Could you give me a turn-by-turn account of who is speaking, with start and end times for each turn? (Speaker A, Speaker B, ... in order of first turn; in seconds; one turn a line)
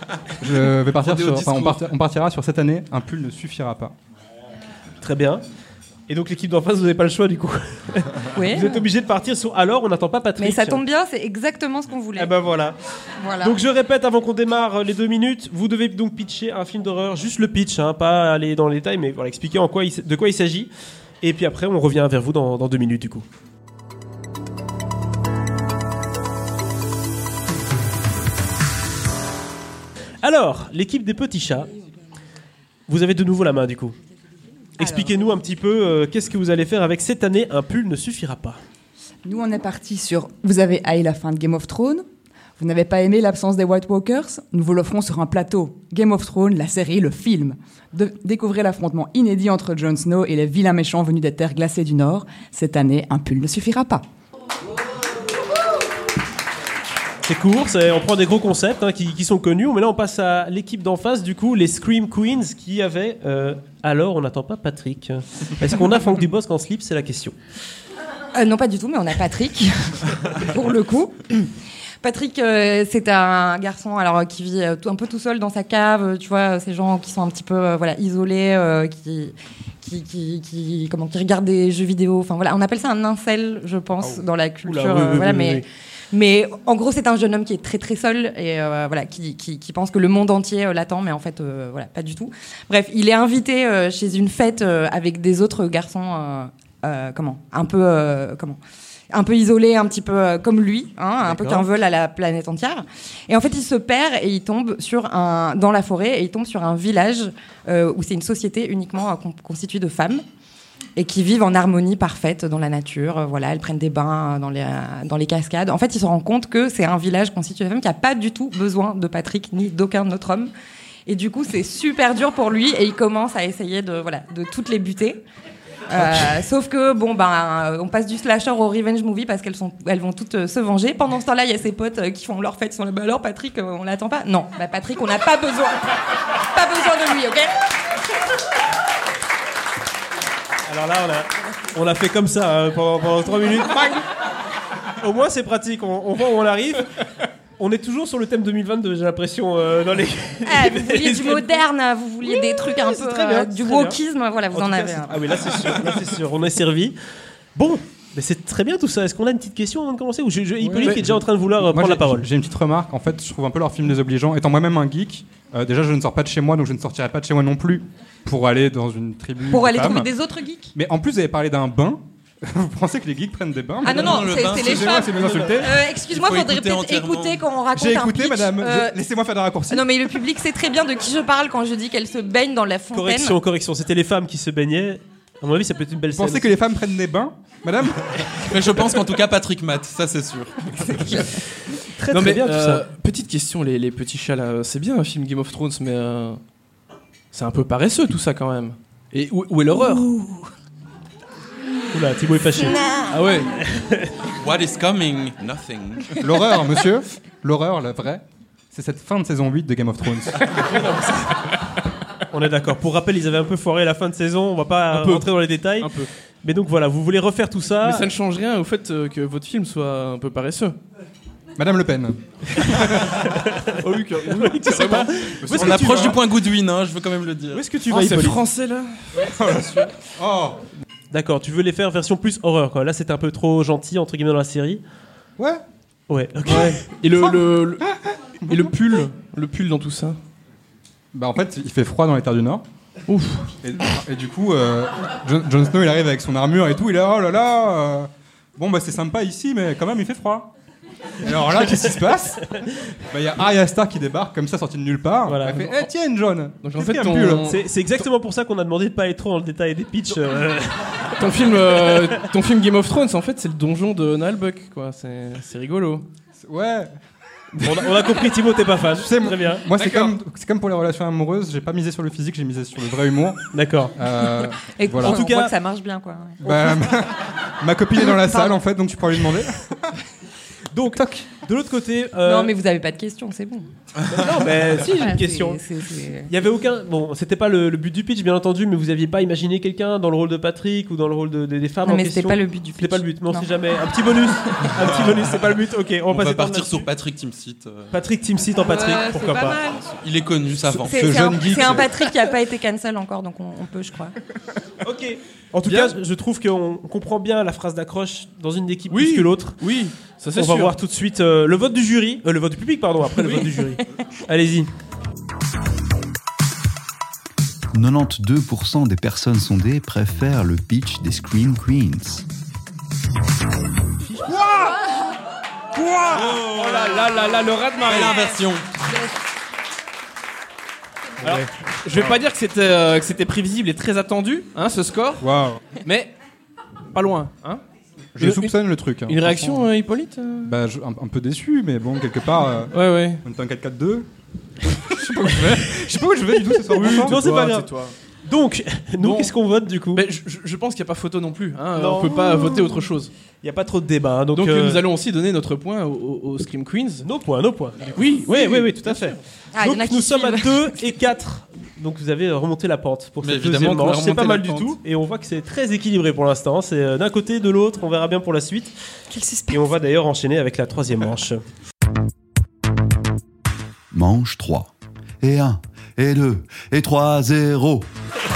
Speaker A: 0.4-3.9
Speaker B: 1.0-1.8
Speaker C: 5.0-5.4
Speaker C: 6.1-10.8
Speaker D: 8.3-8.8
Speaker D: 10.4-12.3
Speaker C: 12.2-12.8
Speaker D: 13.2-13.6
Speaker C: 13.4-20.7
Speaker C: 21.2-23.2
Speaker C: 30.2-31.7
Speaker C: 32.9-34.0
Speaker C: 34.8-38.6
Speaker E: 39.2-42.0
Speaker E: 42.6-54.0
Speaker C: 57.2-67.4
Speaker D: 68.3-98.6
Speaker C: 84.6-85.6
Speaker D: 99.1-110.2
Speaker C: 101.2-101.7
Speaker D: 111.0-120.5
Speaker D: 121.0-125.2
Speaker D: 125.9-137.6
Speaker C: 140.7-144.1
Speaker C: 145.0-146.9
Speaker C: 147.6-151.6
Speaker D: 150.4-155.5
Speaker C: 152.2-154.0
Speaker C: 154.5-156.9
Speaker C: 157.5-162.3
Speaker A: 160.7-170.1
Speaker B: 160.7-161.0
Speaker D: 169.5-170.7
Speaker A: 170.7-175.7
Speaker D: 173.8-179.0
Speaker F: 173.8-175.3
Speaker F: 176.1-177.4
Speaker A: 177.7-180.0
Speaker D: 179.7-183.4
Speaker C: 182.9-186.5
Speaker A: 186.1-188.3
Speaker F: 188.4-191.3
Speaker C: 191.8-192.9
Speaker B: 192.1-196.4
Speaker B: 197.3-200.2
Speaker D: 200.0-200.4
Speaker C: 201.9-202.8
Speaker D: 202.5-203.2
Speaker B: 203.1-203.5
Speaker C: 203.7-204.1
Speaker F: 204.3-206.3
Speaker A: 206.2-210.7
Speaker C: 210.7-211.4
Speaker C: 212.3-218.1
Speaker B: 214.9-216.1
Speaker B: 217.8-220.8
Speaker A: 221.6-223.2
Speaker C: 222.6-226.2
Speaker B: 223.7-225.3
Speaker A: 225.4-226.2
Speaker F: 225.5-227.7
Speaker C: 227.5-228.4
Speaker B: 227.9-229.3
Speaker A: 229.1-230.6
Speaker C: 231.1-234.8
Speaker A: 235.4-235.6
Speaker C: 236.1-236.9
Speaker B: 236.4-237.8
Speaker A: 237.1-238.7
Speaker B: 238.5-240.2
Speaker A: 241.1-242.6
Speaker B: 243.1-243.5
Speaker A: 243.6-250.5
Speaker A: 251.2-257.5
Speaker C: 255.2-255.6
Speaker B: 255.5-255.8
Speaker B: 256.6-257.6
Speaker C: 257.4-262.0
Speaker B: 261.1-266.0
Speaker A: 266.4-266.9
Speaker C: 267.6-269.7
Speaker A: 269.0-275.2
Speaker C: 273.5-273.9
Speaker D: 274.7-276.4
Speaker C: 275.0-275.5
Speaker A: 276.4-279.9
Speaker C: 276.4-276.7
Speaker D: 278.2-278.6
Speaker C: 280.7-282.5
Speaker D: 282.2-283.7
Speaker C: 284.0-285.6
Speaker D: 284.9-286.3
Speaker C: 286.2-296.9
Speaker D: 291.8-293.5
Speaker F: 294.8-295.5
Speaker F: 296.1-298.0
Speaker C: 297.9-299.6
Speaker D: 298.6-299.9
Speaker F: 299.8-300.9
Speaker A: 300.8-301.9
Speaker D: 300.9-304.1
Speaker C: 304.8-309.6
Speaker B: 305.6-306.0
Speaker B: 308.9-310.7
Speaker C: 310.4-314.7
Speaker G: 317.7-322.2
Speaker C: 324.0-324.7
Speaker C: 326.1-327.1
Speaker B: 326.2-328.2
Speaker F: 327.8-328.7
Speaker B: 331.2-336.1
Speaker A: 335.2-335.6
Speaker B: 336.9-337.6
Speaker A: 338.1-339.7
Speaker B: 338.2-338.5
Speaker B: 339.1-340.5
Speaker A: 340.4-344.1
Speaker B: 342.7-343.2
Speaker A: 344.6-347.2
Speaker B: 346.7-347.9
Speaker C: 346.7-347.7
Speaker C: 348.2-350.0
Speaker B: 349.0-349.3
Speaker B: 349.9-353.1
Speaker C: 351.7-352.6
Speaker C: 353.4-354.8
Speaker B: 354.3-357.1
Speaker C: 357.0-368.7
Speaker B: 357.9-359.2
Speaker D: 359.5-360.8
Speaker F: 363.2-364.8
Speaker D: 369.1-369.6
Speaker C: 369.5-371.4
Speaker G: 373.9-377.9